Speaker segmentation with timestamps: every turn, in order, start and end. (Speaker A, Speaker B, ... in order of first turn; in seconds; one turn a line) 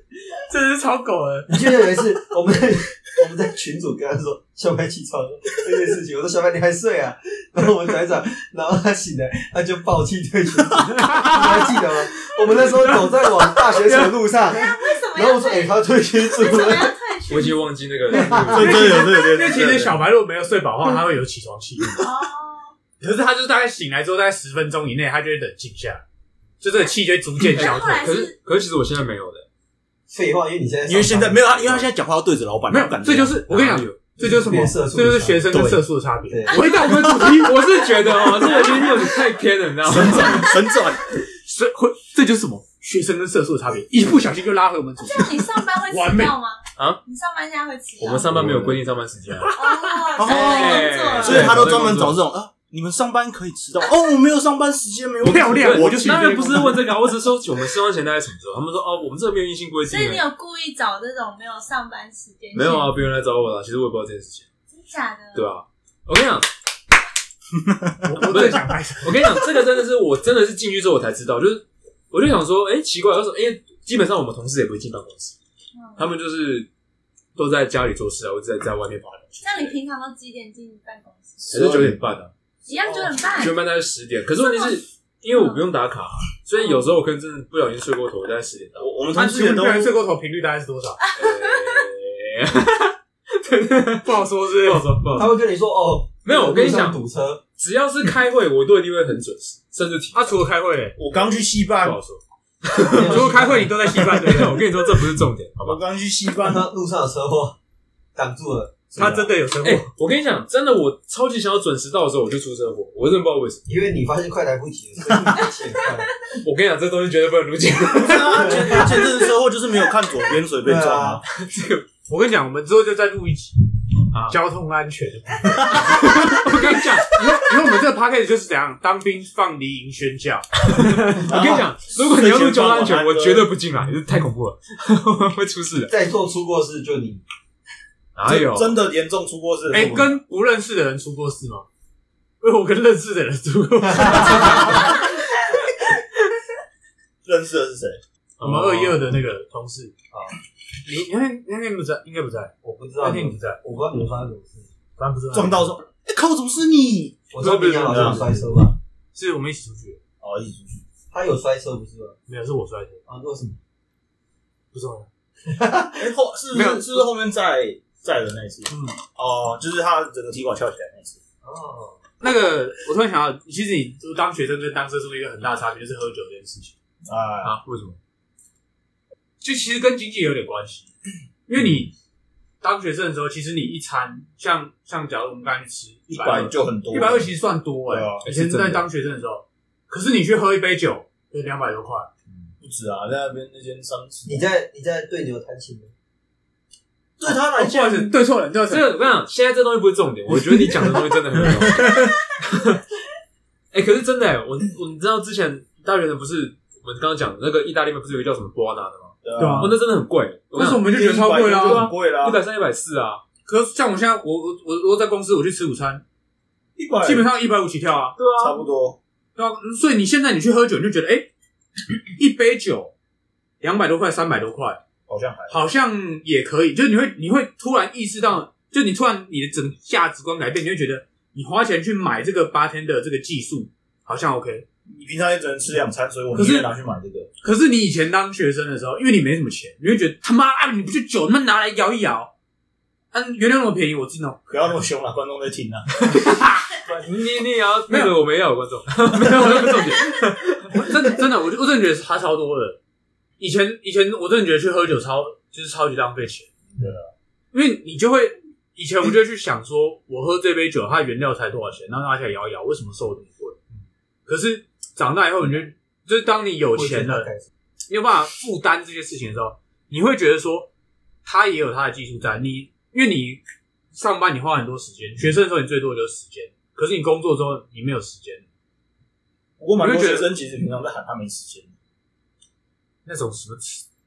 Speaker A: 0.3-1.6
Speaker B: 1.5-16.9
Speaker A: 11.0-11.7
Speaker A: 12.5-14.1
Speaker C: 14.5-17.7
Speaker D: 17.3-18.8
Speaker B: 18.1-18.6
Speaker C: 18.2-19.3
Speaker E: 18.5-20.0
Speaker A: 18.5-22.1
Speaker C: 21.9-22.7
Speaker A: 23.0-26.0
Speaker A: 26.6-28.0
Speaker C: 27.5-28.3
Speaker D: 27.5-29.4
Speaker B: 30.1-31.9
Speaker E: 30.9-33.4
Speaker A: 32.7-37.6
Speaker D: 33.5-34.0
Speaker B: 34.2-35.6
Speaker E: 35.5-35.8
Speaker B: 36.3-36.6
Speaker C: 36.5-37.1
Speaker D: 36.5-40.5
Speaker C: 38.1-39.1
Speaker E: 39.9-41.0
Speaker C: 40.1-40.6
Speaker A: 41.4-46.4
Speaker C: 45.0-48.4
Speaker D: 48.0-49.5
Speaker E: 48.3-48.8
Speaker A: 49.4-50.1
Speaker C: 49.5-51.8
Speaker E: 50.2-56.9
Speaker D: 50.2-52.2
Speaker A: 55.2-56.8
Speaker D: 55.5-60.2
Speaker C: 59.8-63.0
Speaker D: 62.5-64.5
Speaker C: 64.7-65.5
Speaker D: 65.3-66.5
Speaker E: 67.6-68.3
Speaker A: 68.0-69.3
Speaker D: 68.2-75.3
Speaker C: 75.7-76.1
Speaker D: 76.0-76.7
Speaker D: 77.3-79.8
Speaker C: 79.4-81.6
Speaker D: 81.5-82.3
Speaker E: 81.5-82.0
Speaker C: 82.7-83.6
Speaker E: 82.8-83.2
Speaker D: 83.3-88.9
Speaker C: 84.4-85.6
Speaker C: 86.6-86.9
Speaker E: 88.8-89.9
Speaker A: 89.1-91.0
Speaker C: 91.0-91.9
Speaker D: 91.2-95.3
Speaker A: 94.0-95.0
Speaker B: 95.1-97.4
Speaker D: 96.2-97.0
Speaker D: 97.6-100.3
Speaker A: 100.1-101.0
Speaker E: 101.0-102.0
Speaker D: 101.1-102.2
Speaker D: 102.7-105.8
Speaker B: 102.7-103.8
Speaker A: 102.9-104.7
Speaker E: 105.6-106.6
Speaker B: 106.4-107.6
Speaker B: 108.1-109.2
Speaker A: 108.9-109.9
Speaker E: 109.0-109.2
Speaker D: 109.6-113.6
Speaker B: 113.7-116.1
Speaker D: 116.3-119.0
Speaker E: 117.9-121.2
Speaker B: 118.4-118.9
Speaker B: 120.6-121.2
Speaker D: 121.3-121.8
Speaker A: 122.1-123.5
Speaker D: 124.1-124.4
Speaker A: 124.3-131.3
Speaker D: 125.7-127.2
Speaker D: 130.9-135.9
Speaker E: 131.2-133.5
Speaker B: 135.9-137.2
Speaker D: 138.1-138.8
Speaker E: 138.2-140.2
Speaker A: 139.7-141.7
Speaker A: 142.4-145.1
Speaker B: 144.0-144.6
Speaker E: 147.2-148.0
Speaker D: 148.4-149.2
Speaker A: 148.4-149.9
Speaker A: 150.8-153.6
Speaker B: 152.6-154.7
Speaker A: 155.0-155.7
Speaker E: 155.3-157.2
Speaker B: 157.3-158.8
Speaker D: 157.4-158.2
Speaker E: 157.8-158.4
Speaker A: 159.1-160.0
Speaker E: 160.2-160.8
Speaker B: 161.1-162.2
Speaker A: 162.3-163.0
Speaker B: 163.1-163.6
Speaker A: 164.7-165.1
Speaker B: 165.5-166.1
Speaker E: 166.0-171.2
Speaker A: 166.5-167.1
Speaker A: 168.7-168.9
Speaker B: 171.4-172.0
Speaker A: 172.2-176.7
Speaker E: 177.1-177.6
Speaker D: 177.4-178.0
Speaker A: 179.4-180.9
Speaker A: 181.5-181.9
Speaker A: 182.6-192.1
Speaker E: 186.1-187.3
Speaker E: 187.9-188.2
Speaker D: 188.2-188.8
Speaker E: 192.6-194.4
Speaker B: 194.2-195.9
Speaker E: 197.2-198.2
Speaker A: 197.3-198.8
Speaker D: 198.7-202.8
Speaker D: 203.7-210.9
Speaker E: 209.2-209.8
Speaker A: 209.4-209.7
Speaker A: 210.5-211.9
Speaker E: 210.8-212.4
Speaker D: 211.4-213.2
Speaker A: 213.4-216.0
Speaker E: 216.8-217.3
Speaker A: 217.0-218.2
Speaker D: 218.2-218.7
Speaker E: 218.3-219.0
Speaker A: 219.3-221.3
Speaker A: 222.2-222.9
Speaker A: 223.6-224.8
Speaker E: 225.1-225.6
Speaker A: 225.5-234.7
Speaker E: 234.9-237.3
Speaker A: 236.3-236.7
Speaker A: 237.4-242.3
Speaker A: 243.1-244.4
Speaker E: 244.5-246.2
Speaker A: 246.1-246.7
Speaker D: 246.8-250.7
Speaker A: 247.9-248.1
Speaker A: 249.1-252.8
Speaker A: 253.4-256.5
Speaker E: 256.8-257.1
Speaker A: 257.5-263.6
Speaker A: 264.3-267.3
Speaker B: 266.7-267.4
Speaker A: 267.9-270.7
Speaker A: 271.2-273.4
Speaker A: 273.9-278.4
Speaker E: 279.6-281.7
Speaker A: 279.8-280.3
Speaker A: 283.1-283.9